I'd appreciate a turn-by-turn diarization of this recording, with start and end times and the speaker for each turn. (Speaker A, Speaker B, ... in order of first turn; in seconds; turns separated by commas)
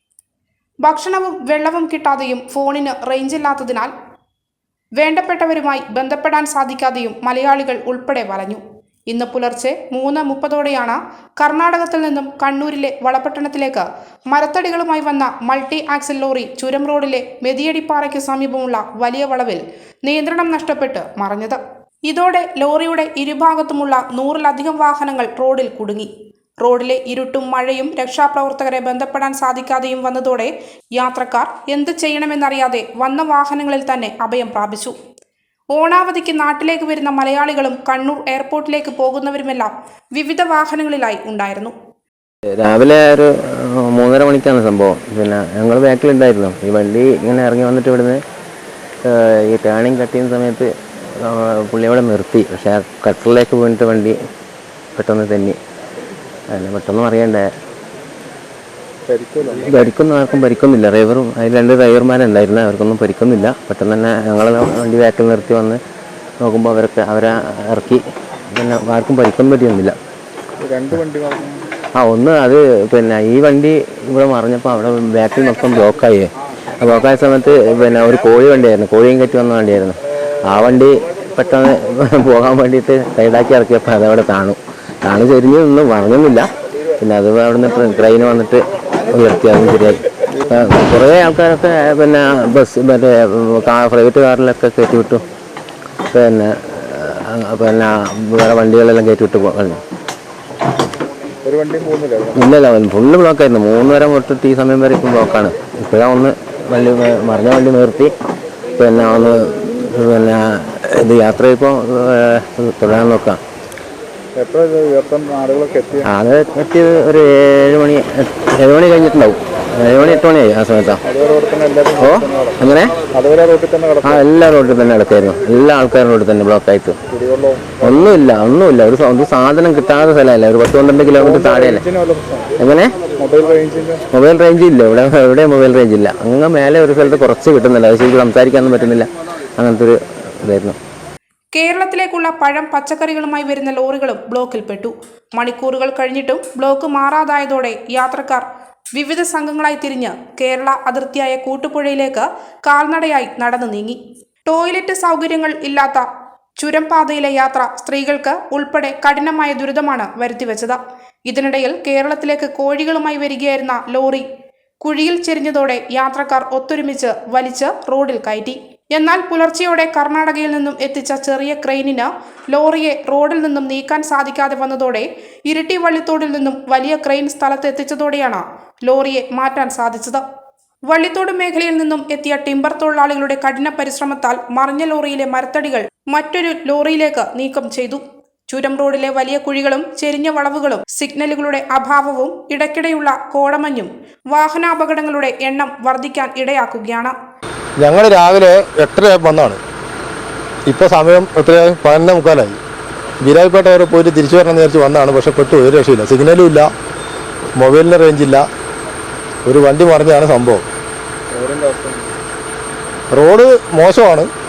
Speaker A: 0.8-3.9, Speaker A: 5.0-26.1, Speaker A: 26.6-35.0, Speaker A: 35.7-41.7, Speaker B: 42.6-48.2, Speaker B: 49.0-54.2, Speaker B: 55.0-55.6, Speaker B: 56.5-57.5, Speaker C: 59.1-59.6, Speaker B: 59.6-65.8, Speaker B: 66.4-68.0, Speaker B: 68.5-70.0, Speaker C: 70.7-71.6, Speaker B: 72.0-86.5, Speaker B: 87.0-95.2, Speaker B: 96.1-99.8, Speaker C: 101.5-102.4, Speaker B: 102.4-108.1, Speaker B: 108.8-113.4, Speaker C: 114.4-116.0, Speaker B: 116.0-121.0, Speaker C: 121.1-122.6, Speaker B: 122.0-123.0, Speaker C: 123.1-124.2, Speaker B: 124.0-127.0, Speaker C: 127.1-128.0, Speaker B: 127.8-131.8, Speaker C: 131.2-132.5, Speaker B: 132.6-132.9, Speaker C: 133.2-134.0, Speaker B: 134.1-140.8, Speaker A: 141.5-156.1, Speaker A: 156.6-164.2, Speaker A: 164.8-180.2, Speaker A: 180.9-197.2, Speaker D: 197.8-199.6, Speaker D: 200.7-202.6, Speaker D: 203.2-206.7, Speaker D: 207.6-208.5, Speaker D: 209.4-210.6, Speaker C: 211.3-212.1, Speaker D: 213.1-214.3